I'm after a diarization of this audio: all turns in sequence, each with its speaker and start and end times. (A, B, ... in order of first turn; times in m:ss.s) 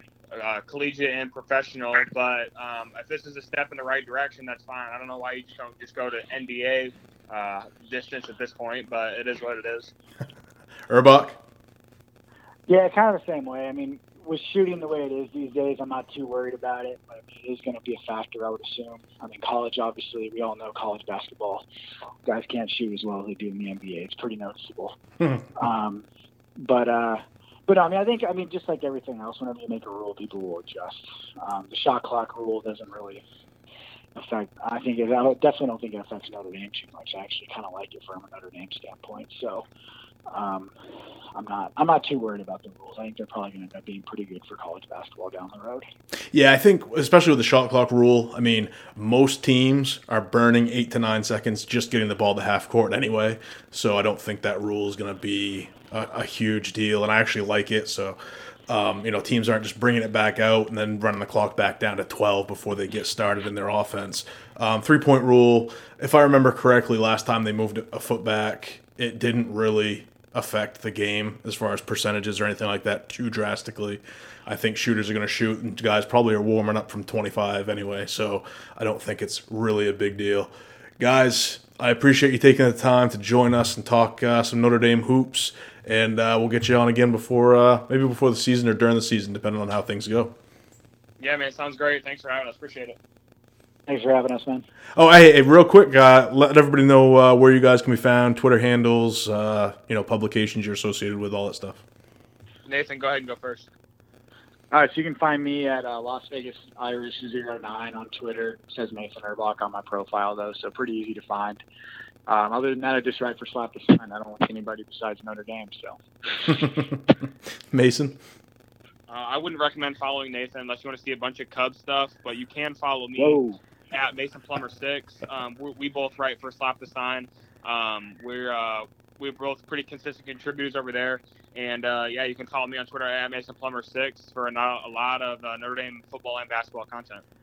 0:00.3-0:09.9 A
0:10.9-0:11.4 B
0:12.7-0:21.6 C
0:22.2-0:25.0 C
0:25.5-0:26.0 C
0:26.6-0:33.2 C
0:34.1-0:39.7 C
0:40.3-0:40.7 C
0:41.3-0:45.9 C
0:46.3-0:58.2 B
0:58.7-1:30.3 B
1:31.2-1:33.0 A
1:33.9-1:34.6 C
1:35.0-1:41.8 B
1:42.6-1:43.7 A
1:44.7-1:51.6 C
1:52.3-1:56.5 C
1:56.5-1:57.0 B
1:57.7-1:58.2 B
1:59.1-2:17.2 A
2:03.2-2:03.6 C